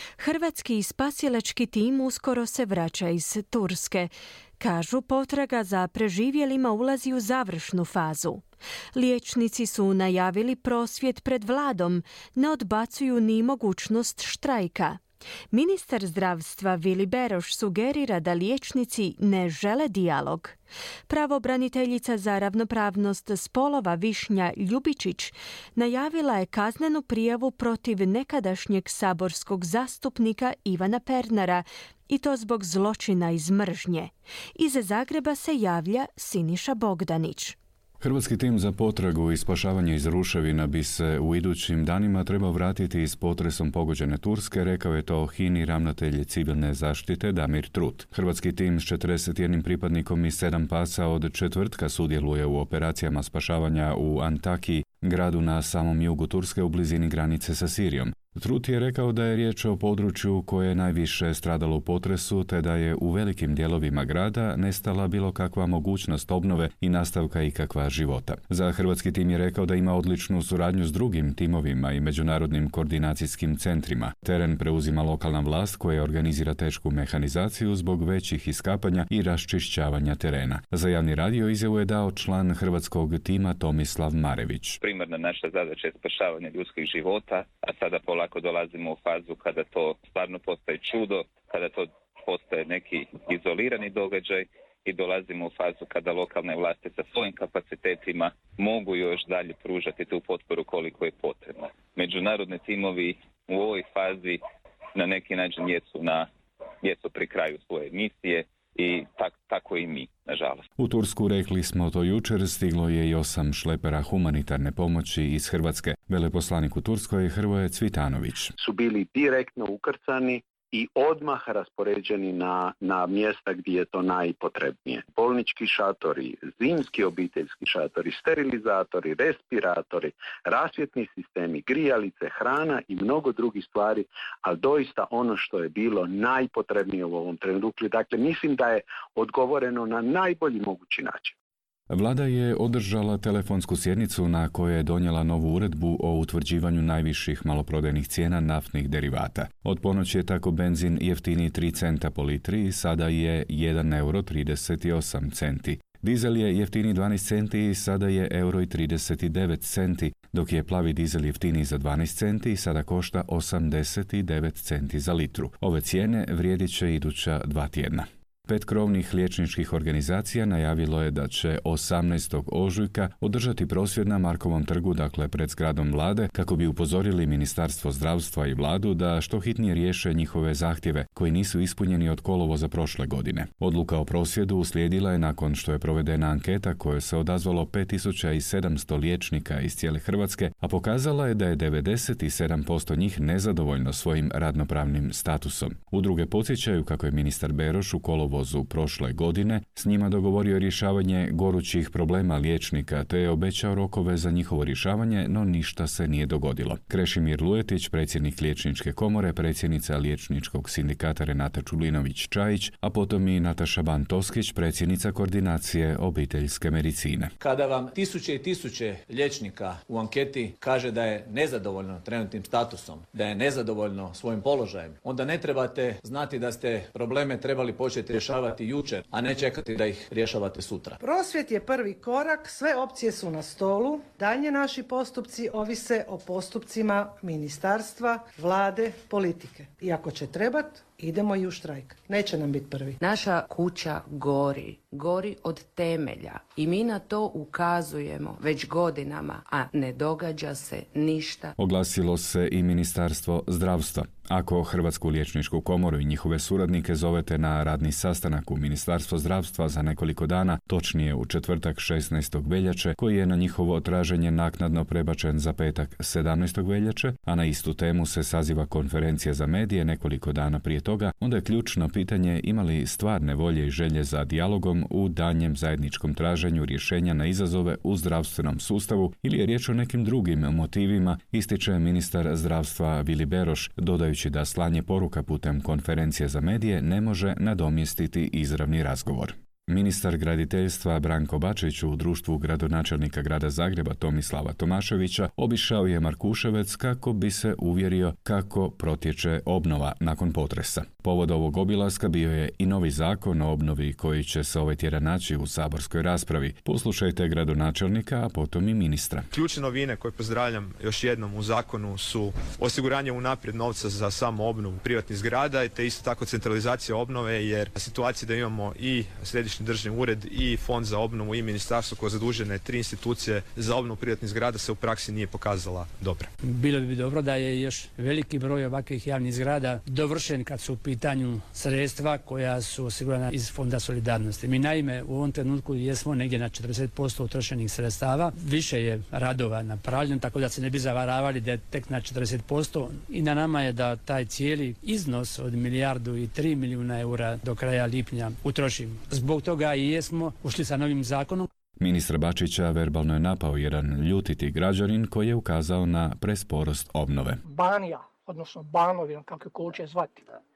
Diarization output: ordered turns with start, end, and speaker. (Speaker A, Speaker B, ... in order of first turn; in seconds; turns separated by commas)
Speaker A: 0.2-8.4, Speaker A: 8.9-15.0, Speaker A: 15.5-20.6, Speaker A: 21.1-37.5, Speaker B: 38.0-84.8, Speaker C: 84.8-104.4, Speaker C: 104.9-106.3, Speaker C: 106.8-110.6, Speaker B: 110.8-118.5, Speaker D: 118.6-141.3, Speaker B: 141.9-217.3, Speaker E: 217.4-231.0, Speaker F: 231.0-243.0, Speaker G: 243.0-251.5, Speaker B: 251.6-309.3, Speaker H: 309.3-326.3, Speaker I: 326.4-351.5, Speaker B: 351.8-357.4, Speaker J: 357.4-360.2